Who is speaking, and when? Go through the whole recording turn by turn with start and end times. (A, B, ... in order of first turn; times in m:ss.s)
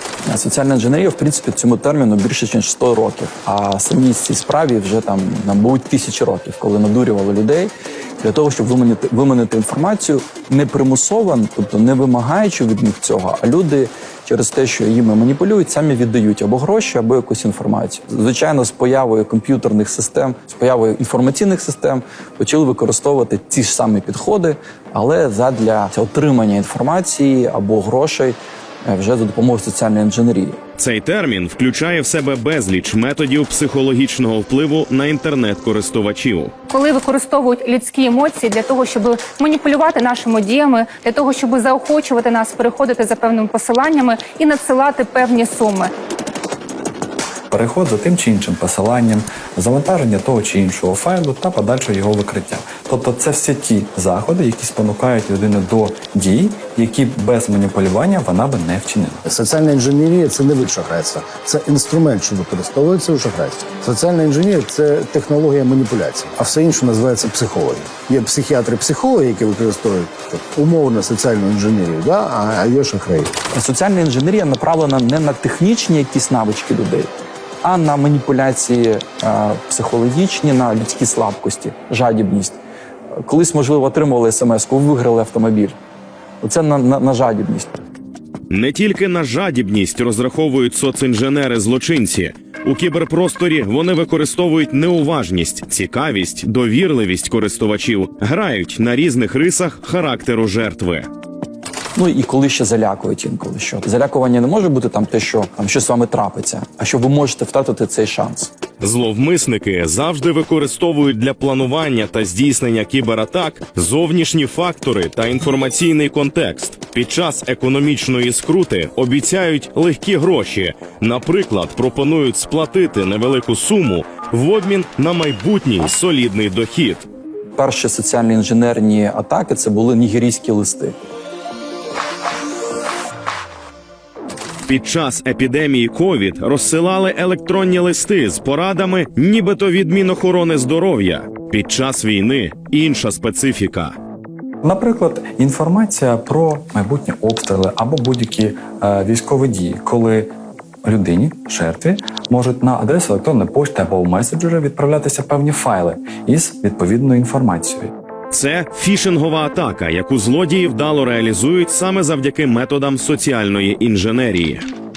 0:00.3-0:30.6 A
0:30.8-0:36.5 B
0:36.7-0:45.9 C
0:47.5-0:59.2 D
0:59.2-1:13.3 E
1:13.5-1:22.6 A
1:23.2-1:25.8 A
1:26.4-1:27.7 A
1:28.5-1:41.1 B
1:42.0-1:48.5 A
1:48.8-2:07.1 B
2:07.6-2:11.0 A
2:14.7-2:24.0 B
2:24.6-2:30.3 D
2:30.8-2:37.9 D
2:38.3-2:44.6 B